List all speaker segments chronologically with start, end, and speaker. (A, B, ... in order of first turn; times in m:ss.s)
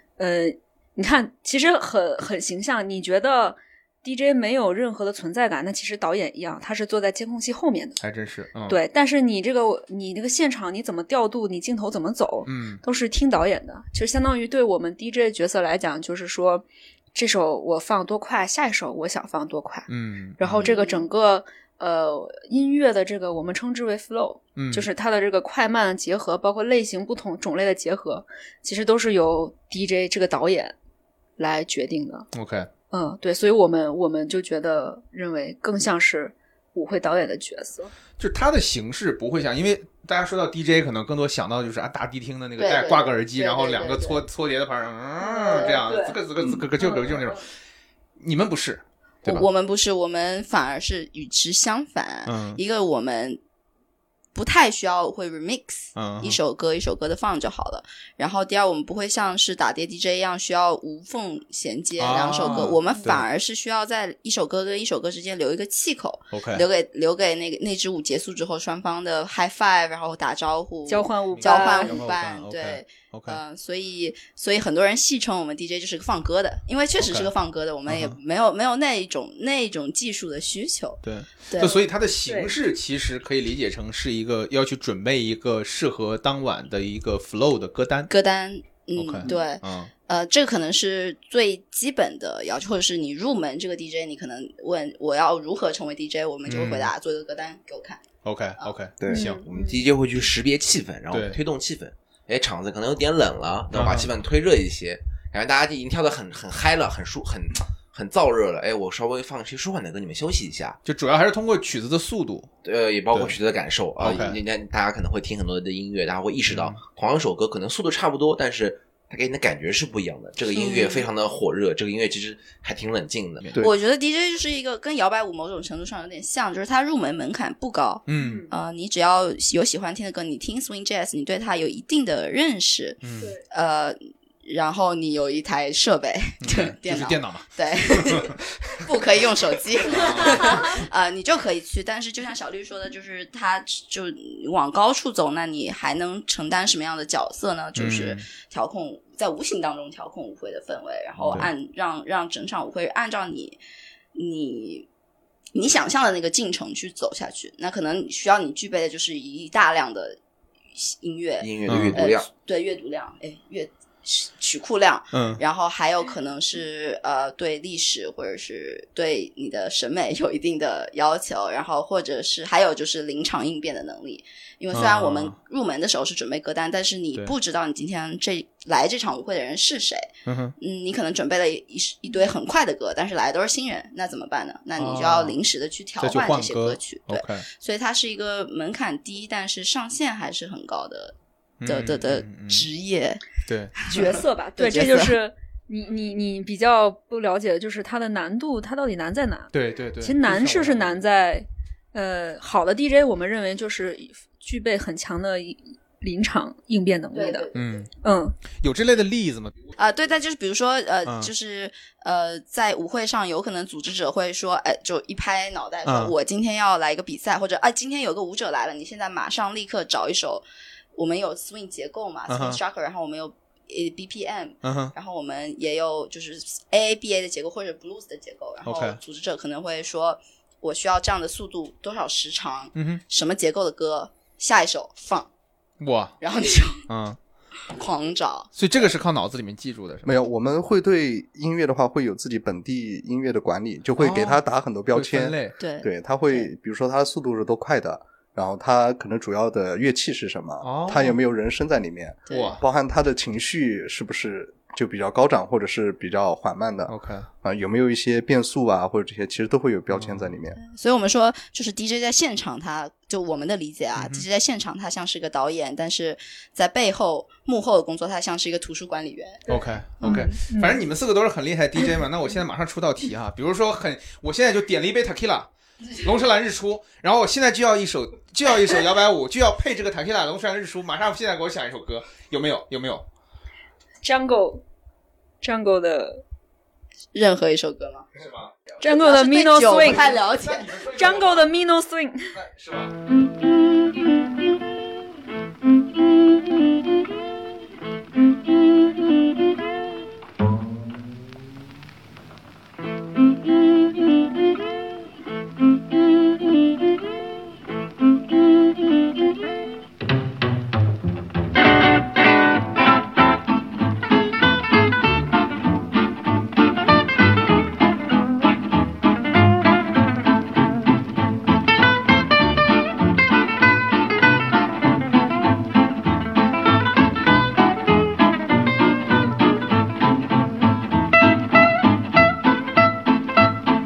0:00.2-0:08.0 A
0:08.0-0:08.8 B
0:08.7-0:30.7 A
0:12.4-0:12.8 B
0:19.9-0:20.7 B
0:20.6-0:21.0 C
0:24.6-0:24.9 B
0:31.4-0:32.3 A
0:32.3-0:32.7 B
0:32.9-0:37.9 A
0:38.2-0:47.4 B
0:42.6-0:44.2 C
0:45.4-0:46.2 A
0:45.5-0:45.8 C
0:46.8-0:47.4 A
0:48.2-0:49.5 B
0:49.2-0:53.4 C
0:52.2-0:52.6 B
0:54.3-1:21.8 C
0:56.0-0:56.4 B
1:02.0-1:03.2 B
1:02.4-1:03.0 A
1:06.3-1:06.6 B
1:10.9-1:12.0 A
1:11.3-1:13.4 B
1:17.0-1:17.3 B
1:17.9-1:18.2 B
1:21.0-1:28.1 B
1:21.6-1:22.5 A
1:28.1-1:38.0 C
1:29.0-1:29.9 B
1:36.4-1:36.9 B
1:38.2-1:39.4 B
1:39.0-1:39.3 D
1:39.1-1:39.8 A
1:39.5-1:50.8 E
1:41.1-1:41.4 B
1:43.7-1:44.1 B
1:50.8-1:52.5 B
1:52.6-2:03.5 E
1:54.0-1:54.4 B
1:56.5-1:56.8 B
2:00.5-2:01.1 C
2:03.6-2:33.6 C
2:08.1-2:08.4 B
2:08.1-2:08.5 A
2:13.0-2:13.3 B
2:16.4-2:18.3 B
2:19.8-2:20.8 B
2:20.4-2:20.7 A
2:27.8-2:28.2 B
2:31.2-2:31.5 B
2:34.1-2:34.9 C
2:35.5-2:40.2 C
2:40.7-3:11.1 C
2:41.4-2:42.3 E
2:41.7-2:42.0 B
2:45.1-2:45.4 B
2:54.7-2:55.4 B
3:00.2-3:00.5 B
3:04.8-3:05.4 B
3:06.0-3:07.4 B
3:11.6-3:12.7 B
3:11.6-3:13.2 C
3:13.4-3:13.8 B
3:13.8-3:15.1 C
3:13.9-3:27.5 A
3:19.5-3:21.0 B
3:27.1-3:27.8 C
3:27.5-3:27.9 B
3:28.0-3:28.4 A
3:28.6-3:29.8 B
3:29.8-3:55.3 C
3:31.0-3:31.3 B
3:35.8-3:36.1 B
3:42.3-3:42.6 B
3:44.6-3:44.9 B
3:48.6-3:49.0 B
3:52.7-3:53.0 B
3:55.8-3:56.2 B
3:56.2-3:56.8 C
3:56.9-3:57.2 B
3:57.7-3:58.5 C
3:58.6-4:00.1 B
4:00.0-4:20.6 D
4:04.0-4:04.4 B
4:04.9-4:05.6 B
4:05.6-4:06.5 C
4:10.6-4:11.2 B
4:12.3-4:12.6 C
4:12.3-4:12.6 B
4:16.9-4:17.3 B
4:19.9-4:20.3 B
4:20.6-4:29.4 C
4:23.9-4:24.2 B
4:29.5-4:43.0 B
4:29.5-4:30.8 A
4:30.0-4:30.3 C
4:44.0-4:44.6 A
4:45.4-4:46.2 A
4:47.1-4:48.1 C
4:48.2-4:48.5 B
4:48.8-4:50.2 A
4:48.8-4:50.7 C
4:49.8-4:51.5 B
4:50.9-4:52.3 A
4:52.3-4:52.9 B